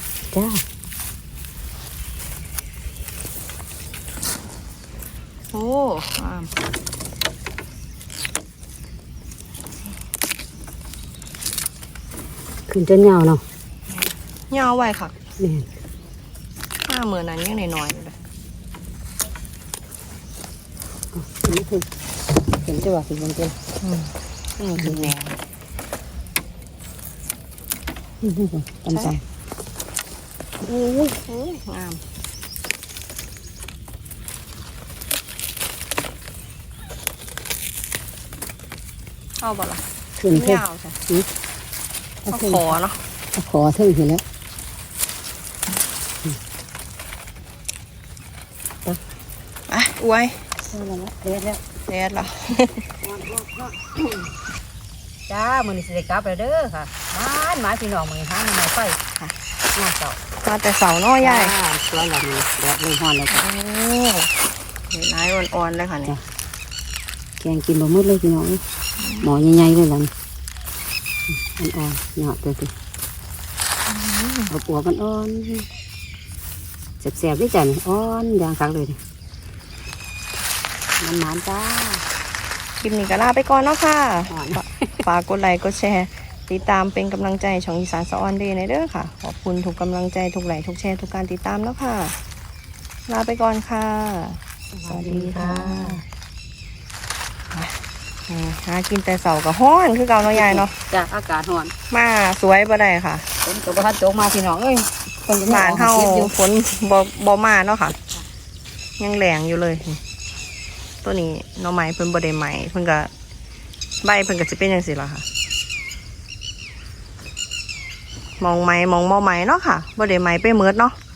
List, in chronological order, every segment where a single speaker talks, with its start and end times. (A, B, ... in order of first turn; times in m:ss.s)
0:00.3-0:00.6 A
0:05.5-0:06.5 B
0:12.7-0:13.4 A
0:13.9-0:15.2 B
0:15.4-0:15.6 A
0:16.9-0:18.2 B
0:21.1-0:21.8 A
0:22.5-0:23.6 A
0:23.8-0:25.4 B
0:24.8-0:25.1 A
0:28.2-0:29.2 A
0:28.9-0:29.2 B
0:30.6-0:31.1 A
0:31.1-0:32.0 B
0:39.4-0:41.0 B
0:40.2-0:41.3 A
0:42.2-0:42.7 A
0:42.3-0:43.0 B
0:43.3-0:44.2 A
0:49.7-0:50.4 B
0:50.7-0:51.6 A
0:51.9-0:52.8 B
0:53.0-0:54.3 A
0:55.3-0:59.0 A
0:59.7-1:00.2 A
1:00.4-1:01.5 B
1:01.2-1:03.4 A
1:03.3-1:04.3 B
1:04.9-1:06.2 B
1:07.4-1:08.6 A
1:09.0-1:09.2 B
1:09.2-1:10.1 A
1:11.3-1:12.7 A
1:13.9-1:14.5 B
1:14.5-1:15.7 A
1:17.0-1:19.0 A
1:21.0-1:22.0 A
1:22.8-1:32.1 B
1:24.3-1:25.0 A
1:33.1-1:36.0 B
1:34.7-1:36.0 A
1:37.5-1:40.7 B
1:40.3-1:41.7 A
1:41.9-1:43.3 B
1:43.4-1:46.3 A
1:45.4-1:47.9 B
1:49.0-1:50.0 B
1:51.0-1:53.1 B
1:54.0-1:55.2 B
1:58.4-2:01.0 B